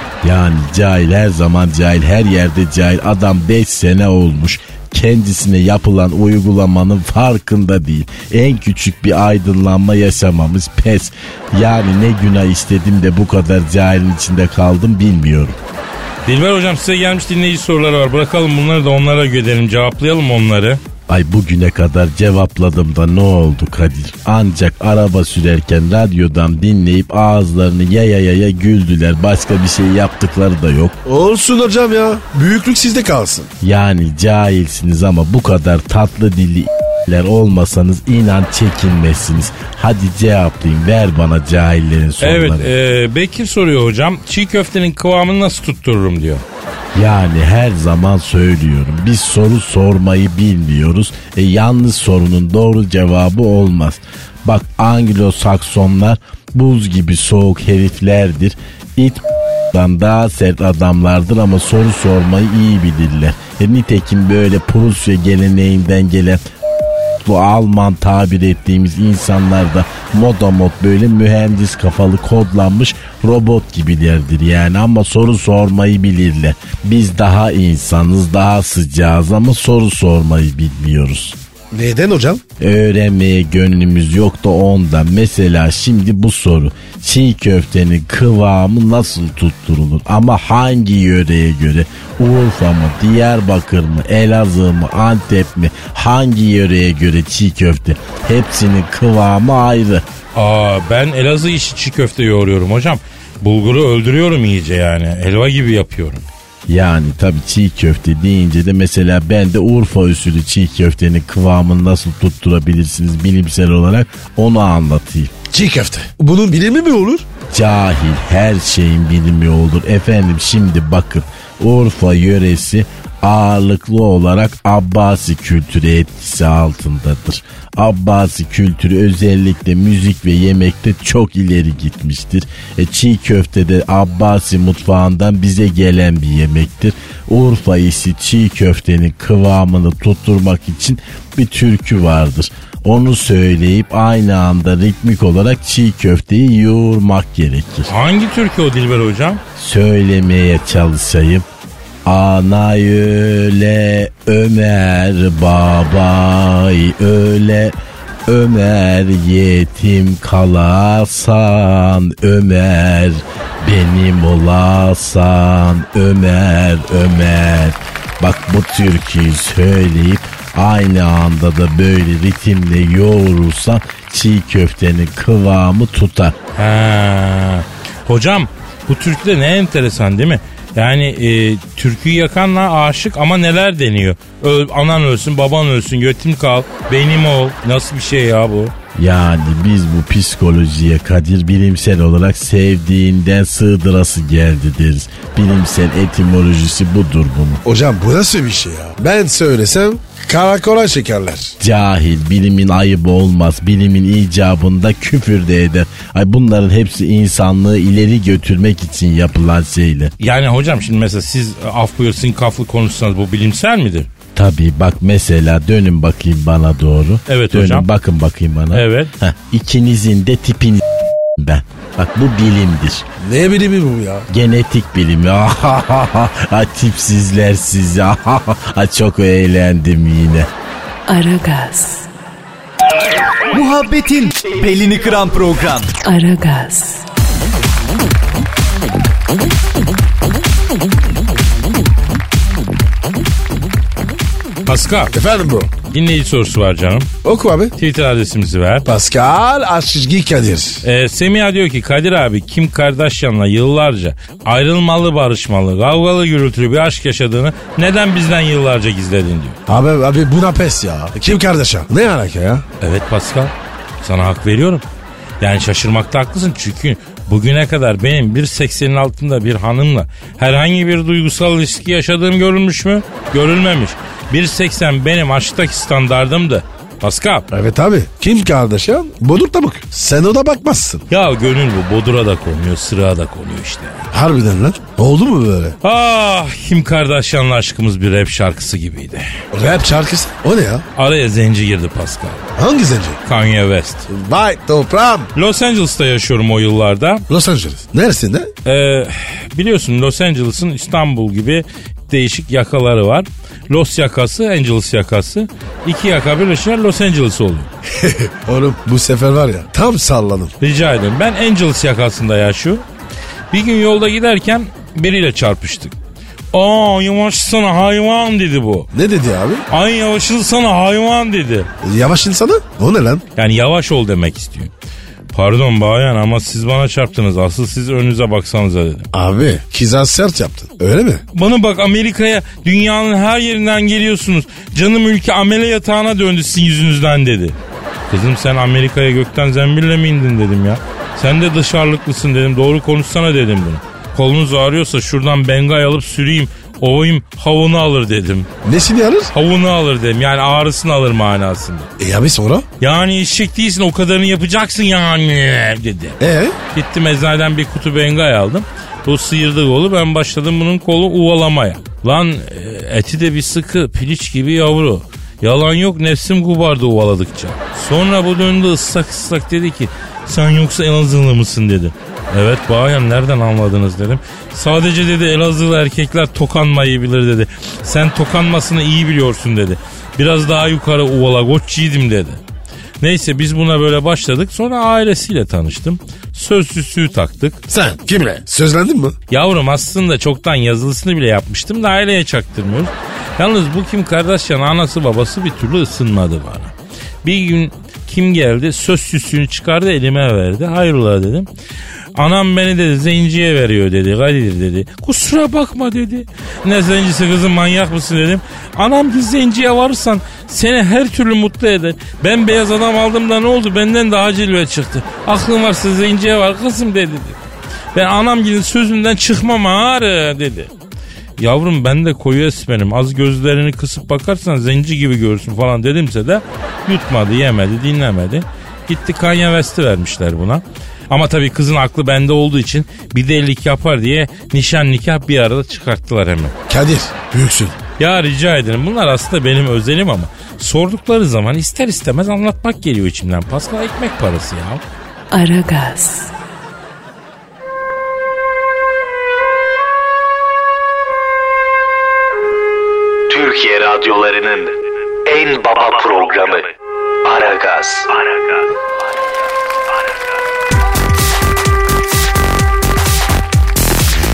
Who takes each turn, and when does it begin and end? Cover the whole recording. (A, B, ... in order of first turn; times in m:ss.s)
0:00.2-0:15.6 A
0:16.2-0:20.8 B
0:21.1-0:31.0 A
0:31.0-0:33.5 C
0:33.6-0:42.7 A
0:42.2-0:46.4 B
0:46.9-1:06.4 A
1:07.2-1:21.4 A
1:21.7-1:22.4 C
1:22.6-1:40.0 A
1:40.3-1:46.2 B
1:46.7-1:55.3 A
1:55.5-1:57.2 C
1:57.5-2:27.9 A
2:27.9-2:29.4 B
2:29.6-2:31.5 A
2:32.0-2:37.7 A
2:38.3-2:56.4 A
2:56.6-3:08.7 B
3:08.9-3:17.6 A
3:17.6-3:21.5 C
3:21.6-3:30.1 A
3:30.2-3:34.1 B
3:34.3-3:40.8 A
3:37.3-3:37.9 B
3:38.7-3:39.1 B
3:41.4-3:43.0 A
3:43.2-3:44.3 C
3:44.3-3:50.5 A
3:51.1-3:52.1 D
3:53.5-3:55.9 E
3:56.0-3:57.0 D
4:04.6-4:05.1 B
4:05.1-4:05.7 C
4:05.9-4:07.1 B
4:07.2-4:07.7 C
4:07.8-4:08.8 B
4:08.8-4:10.8 C
4:10.8-4:19.6 B
4:19.7-4:22.6 C
4:22.8-4:24.8 B
4:25.4-4:37.5 B
4:37.5-4:41.0 C
4:41.1-4:44.1 B
4:44.1-4:45.8 C
4:45.8-4:49.2 B
4:49.5-4:50.8 C
4:51.0-4:52.5 B
4:52.6-4:53.2 C
4:53.2-4:54.1 B
4:54.1-4:55.3 C
4:55.3-4:57.2 B
4:57.3-4:58.5 C
4:58.6-5:07.7 B
5:07.9-5:10.5 C
5:10.6-5:12.8 B
5:13.5-5:15.9 B
5:16.5-5:18.9 B
5:18.9-5:19.6 C
5:19.7-5:21.7 B
5:21.8-5:23.2 C
5:23.4-5:24.7 B
5:25.3-5:29.1 B
5:29.1-5:31.2 C
5:31.3-5:37.6 B
5:38.1-5:48.5 B
5:48.6-5:49.3 C
5:49.3-5:51.9 B
5:52.0-5:52.6 C
5:52.8-5:56.2 B
5:56.2-5:56.6 C
5:56.7-6:22.4 B
6:23.0-6:27.6 B
6:27.7-6:29.2 C
6:29.3-6:41.5 B
6:42.2-6:57.4 B
6:57.9-7:00.7 B
7:01.4-7:16.5 B
7:16.7-7:17.8 C
7:18.0-7:24.8 B
7:25.3-7:26.3 D
7:33.3-7:34.7 F
7:35.2-7:36.7 F
7:37.2-7:38.2 F